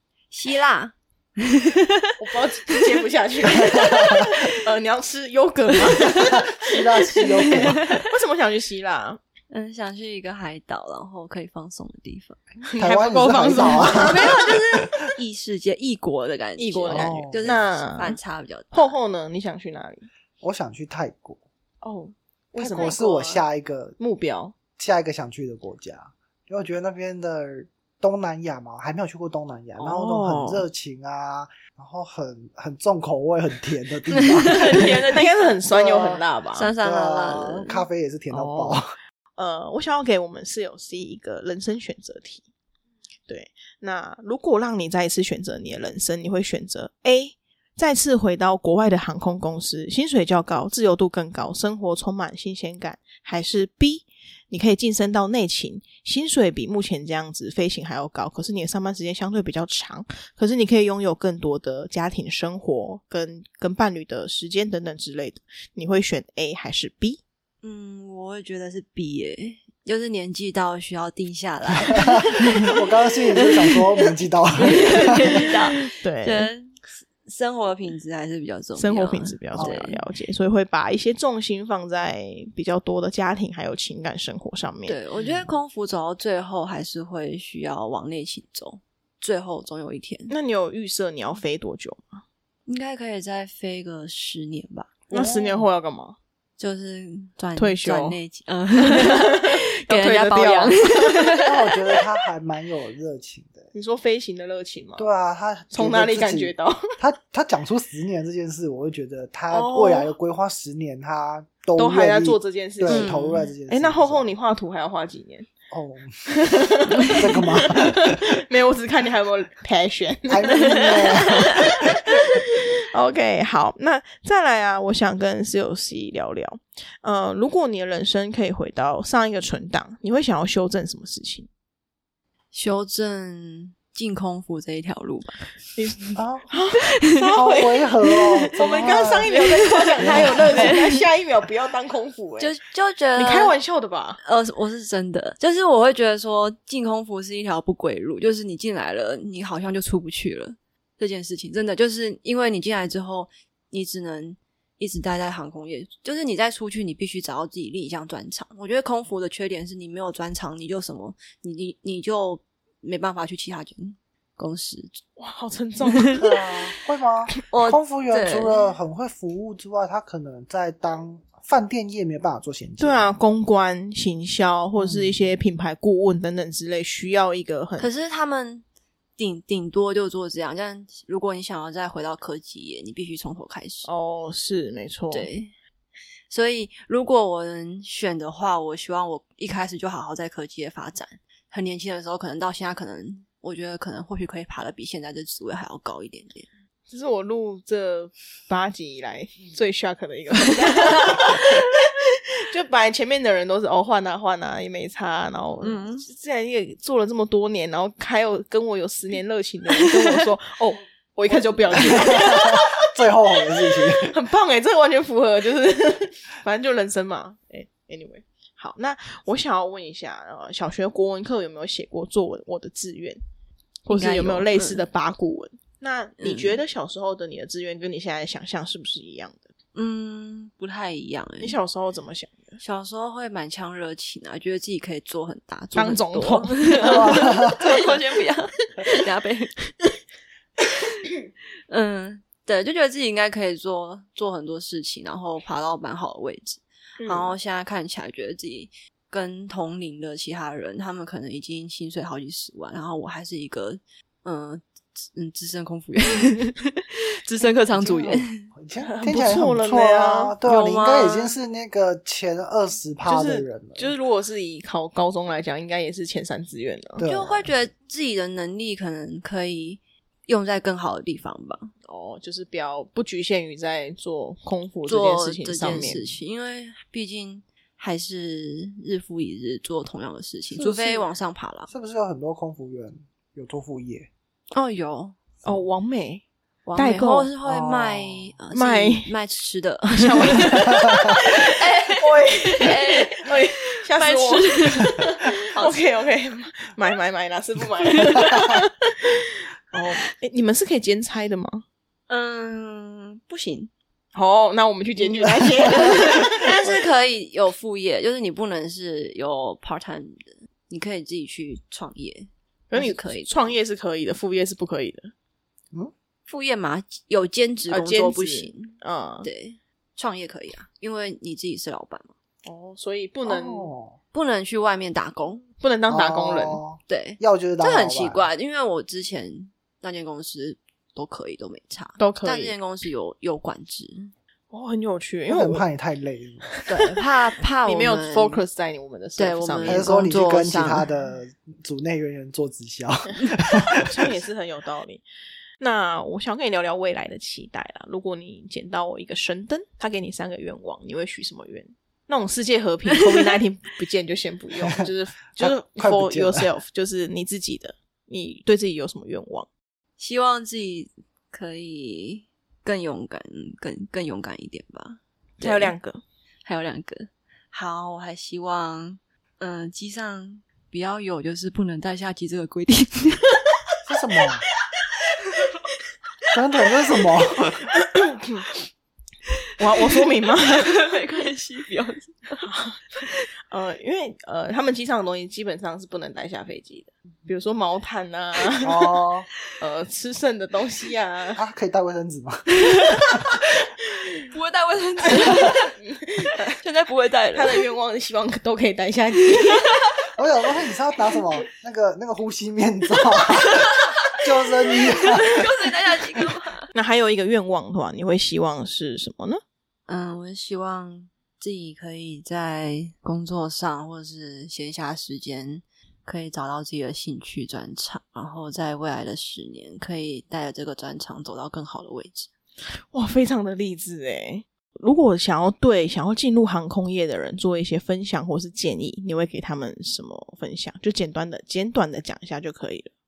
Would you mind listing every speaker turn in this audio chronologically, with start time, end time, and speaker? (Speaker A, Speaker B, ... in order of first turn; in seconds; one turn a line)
Speaker A: 0.3-2.1
Speaker B: 2.2-9.2
Speaker C: 3.5-4.3
Speaker A: 3.6-4.6
Speaker A: 5.9-6.4
Speaker C: 6.1-7.9
Speaker A: 7.5-8.1
Speaker A: 9.5-12.4
Speaker B: 12.7-14.6
Speaker C: 12.8-14.5
Speaker A: 13.6-19.0
Speaker B: 16.6-18.2
Speaker C: 16.9-17.6
Speaker B: 18.7-20.1
Speaker C: 20.4-21.4
Speaker B: 21.8-23.4
Speaker C: 22.6-24.0
Speaker B: 24.0-24.5
Speaker C: 24.8-35.0
Speaker B: 29.8-30.7
Speaker A: 34.1-35.3
Speaker B: 34.5-36.7
Speaker C: 35.7-36.2
Speaker A: 36.6-38.8
Speaker C: 36.8-38.9
Speaker B: 39.4-42.4
Speaker B: 43.3-67.2
Speaker A: 67.6-72.8
Speaker C: 71.9-75.4
Speaker A: 74.6-80.0
Speaker B: 75.1-76.5
Speaker B: 78.8-85.0
Speaker C: 79.5-79.9
Speaker A: 84.9-90.3
Speaker C: 85.2-85.5
Speaker B: 90.3-92.2
Speaker A: 92.7-95.0
Speaker B: 95.1-96.2
Speaker C: 95.1-95.7
Speaker A: 96.6-101.5
Speaker B: 97.6-98.2
Speaker B: 98.8-101.3
Speaker C: 101.5-103.7
Speaker B: 103.7-105.1
Speaker C: 105.0-114.3
Speaker B: 105.7-106.9
Speaker B: 109.5-110.1
Speaker B: 111.8-113.2
Speaker A: 112.9-113.5
Speaker B: 113.7-115.5
Speaker C: 115.7-116.2
Speaker B: 116.3-131.5
Speaker C: 117.2-118.2
Speaker C: 120.3-121.9
Speaker A: 120.5-121.5
Speaker A: 132.5-135.5
Speaker B: 135.8-142.5
Speaker C: 136.2-136.5
Speaker A: 136.9-137.3
Speaker C: 137.3-139.3
Speaker A: 138.6-141.1
Speaker C: 140.0-140.8
Speaker A: 142.4-143.5
Speaker B: 143.2-144.2
Speaker A: 144.2-165.0
Speaker B: 165.2-166.4
Speaker A: 165.9-166.2
Speaker C: 166.2-173.1
Speaker A: 167.5-168.7
Speaker B: 172.8-177.9
Speaker C: 174.8-175.1
Speaker A: 177.8-178.7
Speaker A: 179.2-183.9
Speaker B: 183.8-185.3
Speaker A: 185.1-185.5
Speaker A: 186.3-196.5
Speaker B: 196.9-223.2
Speaker A: 200.6-201.6
Speaker A: 205.6-206.1
Speaker A: 209.7-210.3
Speaker C: 211.3-214.2
Speaker B: 223.8-229.5
Speaker A: 223.9-224.8
Speaker A: 226.2-226.6
Speaker A: 229.7-231.6
Speaker B: 231.4-232.6
Speaker A: 232.6-239.5
Speaker B: 235.8-237.9
Speaker C: 236.8-237.6
Speaker A: 241.7-258.5
Speaker B: 247.0-247.4
Speaker C: 257.7-263.9
Speaker B: 258.8-260.4
Speaker A: 260.5-261.4
Speaker B: 263.1-267.1
Speaker C: 267.0-267.5
Speaker A: 267.0-271.7
Speaker B: 271.9-276.0
Speaker A: 274.9-281.7
Speaker C: 275.7-276.0
Speaker B: 280.6-281.1
Speaker C: 281.7-284.1
Speaker A: 284.5-285.2
Speaker B: 285.4-286.2
Speaker A: 286.7-295.8
Speaker B: 286.8-287.3
Speaker C: 287.4-288.3
Speaker B: 288.5-289.1
Speaker B: 289.9-301.6
Speaker A: 297.9-298.6
Speaker A: 302.1-303.7
Speaker B: 304.1-306.8
Speaker A: 305.0-313.5
Speaker B: 312.7-315.1
Speaker A: 316.3-322.1
Speaker B: 317.7-319.3
Speaker B: 322.4-323.7
Speaker C: 323.2-324.0
Speaker A: 324.1-325.4
Speaker B: 325.6-326.6
Speaker C: 325.9-328.2
Speaker A: 326.9-334.1
Speaker B: 332.0-332.6
Speaker B: 334.5-335.6
Speaker C: 335.3-336.5
Speaker A: 336.7-338.4
Speaker B: 337.6-339.9
Speaker A: 339.2-340.9
Speaker C: 339.6-344.0
Speaker B: 343.4-345.0
Speaker B: 345.6-359.5
Speaker A: 352.9-353.2
Speaker C: 355.4-356.5
Speaker A: 360.0-365.8
Speaker B: 365.4-366.0
Speaker A: 366.4-373.5
Speaker C: 373.9-374.4
Speaker A: 375.1-375.5
Speaker C: 376.3-377.7
Speaker B: 377.8-378.5
Speaker B: 379.6-380.8
Speaker A: 379.7-382.5
Speaker B: 382.4-389.0
Speaker C: 388.6-389.3
Speaker B: 389.6-391.4
Speaker C: 391.4-392.5
Speaker A: 392.5-393.4
Speaker A: 394.3-395.7
Speaker B: 395.3-396.5
Speaker A: 396.6-397.6
Speaker B: 397.4-399.7
Speaker A: 399.3-399.9
Speaker C: 400.2-405.5
Speaker A: 403.5-404.1
Speaker A: 404.7-406.7
Speaker B: 406.7-409.4
Speaker A: 409.9-422.3
Speaker B: 422.9-432.9